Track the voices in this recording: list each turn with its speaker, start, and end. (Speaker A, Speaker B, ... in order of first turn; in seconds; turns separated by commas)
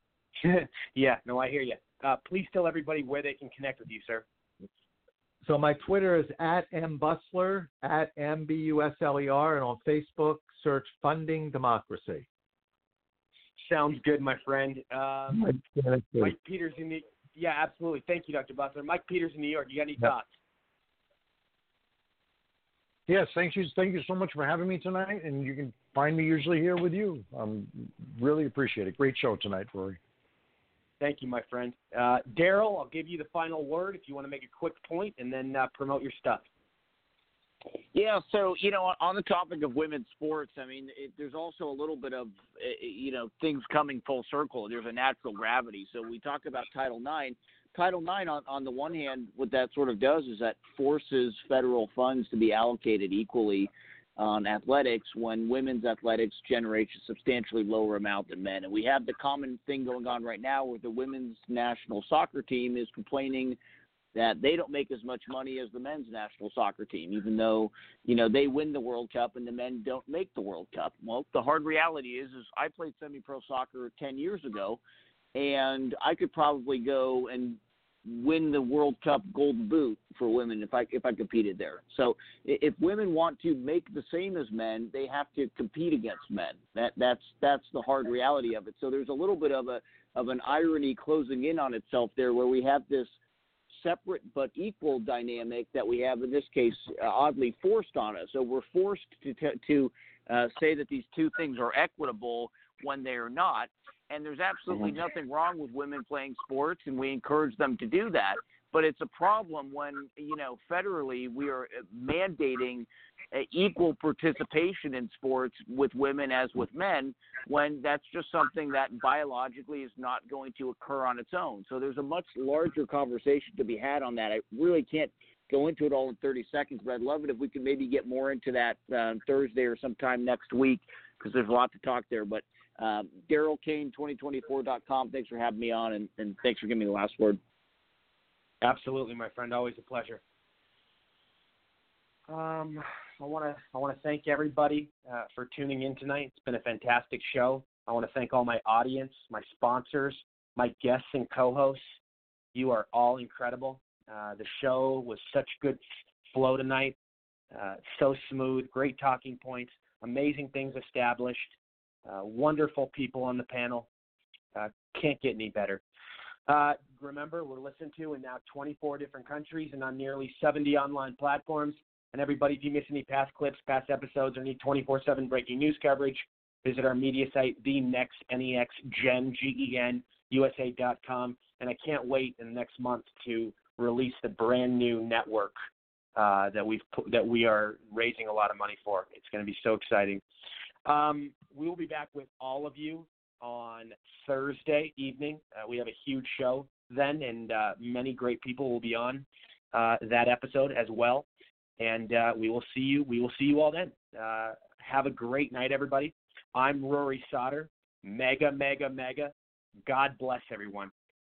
Speaker A: 0.4-4.2, Speaker B: 5.4-12.3, Speaker A: 13.6-15.5, Speaker B: 15.3-16.3, Speaker A: 16.2-20.4, Speaker C: 23.1-30.0, Speaker A: 31.0-36.5, Speaker D: 37.9-63.6, Speaker D: 64.2-74.8, Speaker D: 75.3-93.2, Speaker D: 93.7-137.4, Speaker A: 138.6-140.2, Speaker A: 142.3-152.0, Speaker A: 152.6-157.0, Speaker A: 157.5-163.9, Speaker A: 164.6-165.8, Speaker A: 166.5-185.6, Speaker A: 186.2-190.2, Speaker A: 190.9-201.3, Speaker A: 201.8-209.3, Speaker A: 209.9-210.9